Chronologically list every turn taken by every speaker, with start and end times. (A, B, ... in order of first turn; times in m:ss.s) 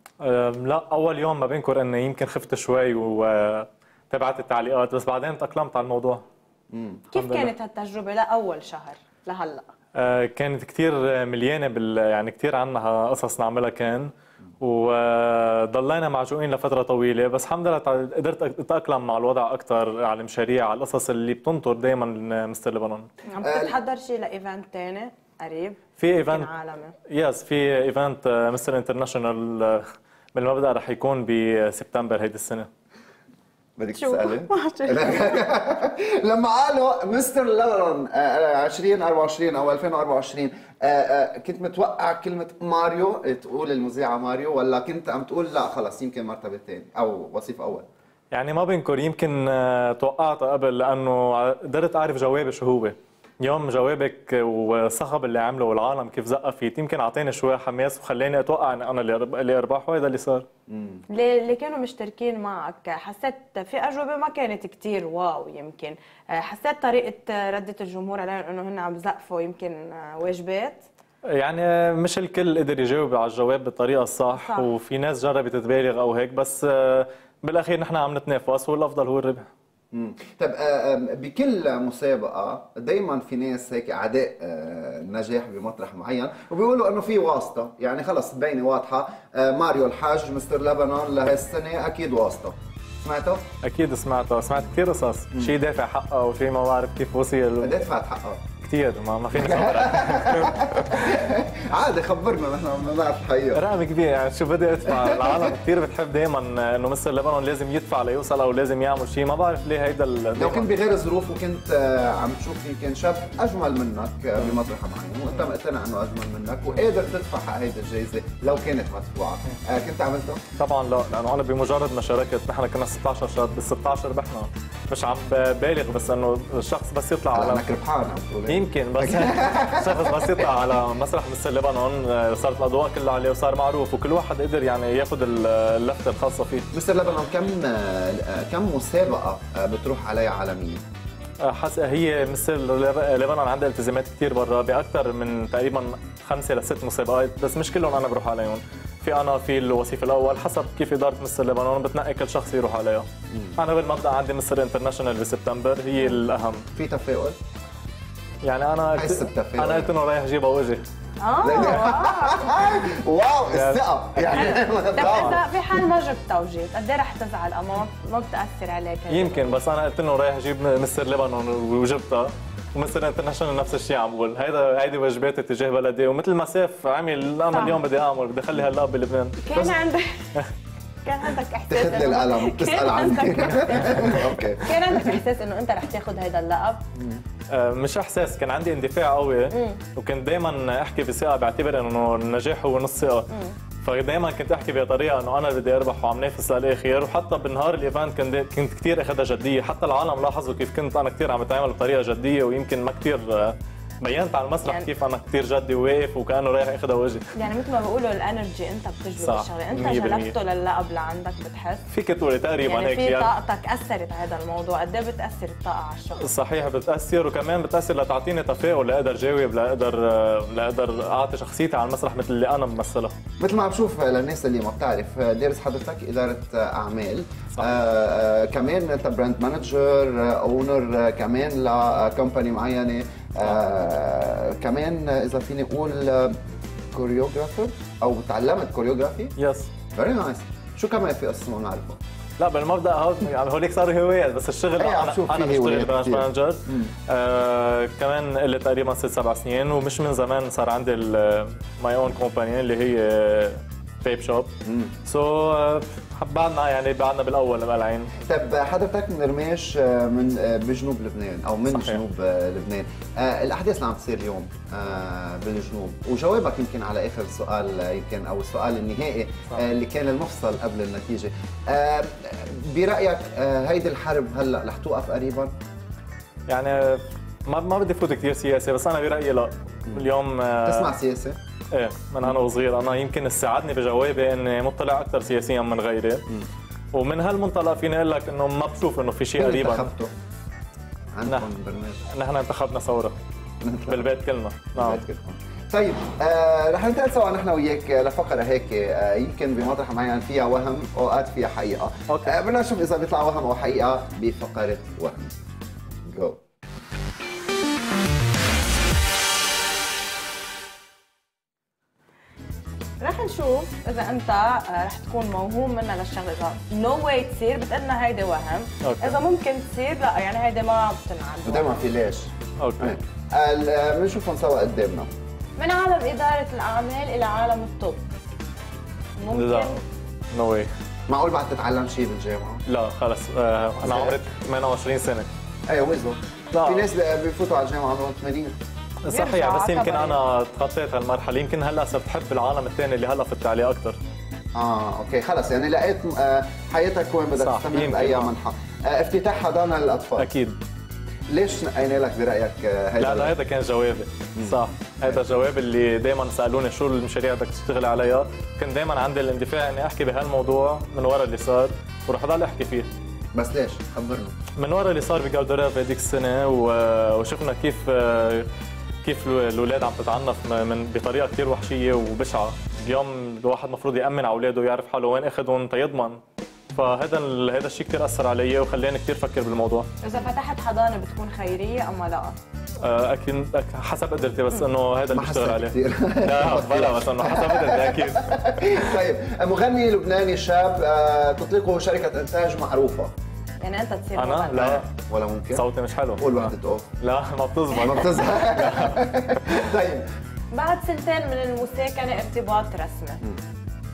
0:00.2-0:06.2 A
0:06.7-0:07.0 B
0:07.1-0:09.7 C
0:07.1-0:07.5 A
0:10.0-0:23.1 A
0:23.3-0:27.0 C
0:23.4-0:23.8 B
0:26.0-0:26.5 A
0:27.1-0:32.7 A
0:33.8-0:47.9 B
0:33.9-0:35.4 C
0:48.3-1:00.5 A
1:00.7-1:01.0 B
1:01.1-1:10.8 C
1:11.3-1:19.5 A
1:14.3-1:14.7 C
1:19.9-1:33.5 B
1:33.6-1:37.8 A
1:37.6-1:38.4 B
1:38.6-1:41.2 A
1:39.3-1:43.6 B
1:43.5-1:50.8 A
1:44.9-1:45.6 B
1:50.4-2:00.4 B
2:00.6-2:07.6 A
2:07.3-2:10.5 B
2:08.5-2:16.7 A
2:16.7-2:20.8 B
2:21.4-2:36.7 A
2:33.3-2:33.6 B
2:36.7-2:37.4 B
2:38.4-2:40.8 A
2:38.9-2:39.9 B
2:41.2-2:42.7 C
2:41.4-2:45.8 B
2:43.5-2:45.4 A
2:44.3-2:49.5 C
2:49.1-2:59.4 A
2:59.4-3:00.3 C
3:01.0-3:06.8 C
3:01.7-3:05.2 B
3:03.8-3:04.4 A
3:07.0-3:07.2 B
3:07.5-3:13.3 A
3:09.5-3:09.8 C
3:13.3-3:13.6 C
3:13.8-3:27.3 A
3:27.4-3:31.8 C
3:29.2-3:30.4 A
3:31.9-3:33.3 A
3:32.6-3:36.3 C
3:36.2-3:43.2 A
3:43.4-3:56.4 B
3:47.5-3:47.8 A
3:56.9-3:59.4 B
3:59.4-3:59.7 A
3:59.9-4:02.0 B
4:02.4-4:14.5 A
4:04.8-4:06.9 B
4:14.6-4:15.0 B
4:15.0-4:18.2 A
4:18.2-4:35.5 B
4:21.7-4:22.0 A
4:36.5-4:41.0 A
4:40.6-4:41.4 B
4:41.7-4:46.3 A
4:46.9-4:49.9 A
4:49.4-4:50.1 B
4:51.1-4:52.1 B
4:51.3-4:51.5 A
4:52.1-4:53.2 A
4:53.6-4:54.1 B
4:53.9-4:55.0 A
4:54.8-5:05.3 B
5:02.1-5:02.4 A
5:06.0-5:06.4 B
5:13.0-5:21.8 C
5:18.8-5:19.2 A
5:21.4-5:25.1 B
5:22.6-5:23.0 A
5:25.6-5:28.0 C
5:29.2-5:29.8 C
5:29.3-5:29.8 A
5:30.3-5:30.7 A
5:31.1-5:32.6 B
5:32.7-5:35.3 A
5:33.8-5:34.2 B
5:35.7-5:38.6 B
5:36.5-5:36.9 A
5:39.0-5:44.0 A
5:39.1-5:40.2 C
5:44.6-5:50.3 B
5:47.4-5:48.3 A
5:50.2-5:50.6 A
5:51.3-5:53.4 B
5:53.0-6:02.9 A
5:54.4-5:55.2 B
6:03.3-6:04.4 B
6:04.6-6:08.5 A
6:09.0-6:16.2 A
6:16.7-6:19.9 A
6:20.0-6:22.4 C
6:22.8-6:28.4 A
6:25.1-6:33.1 B
6:33.6-6:34.8 C
6:34.2-6:34.9 A
6:34.5-6:36.9 B
6:35.5-6:39.0 A
6:37.8-6:40.1 B
6:40.5-6:43.2 C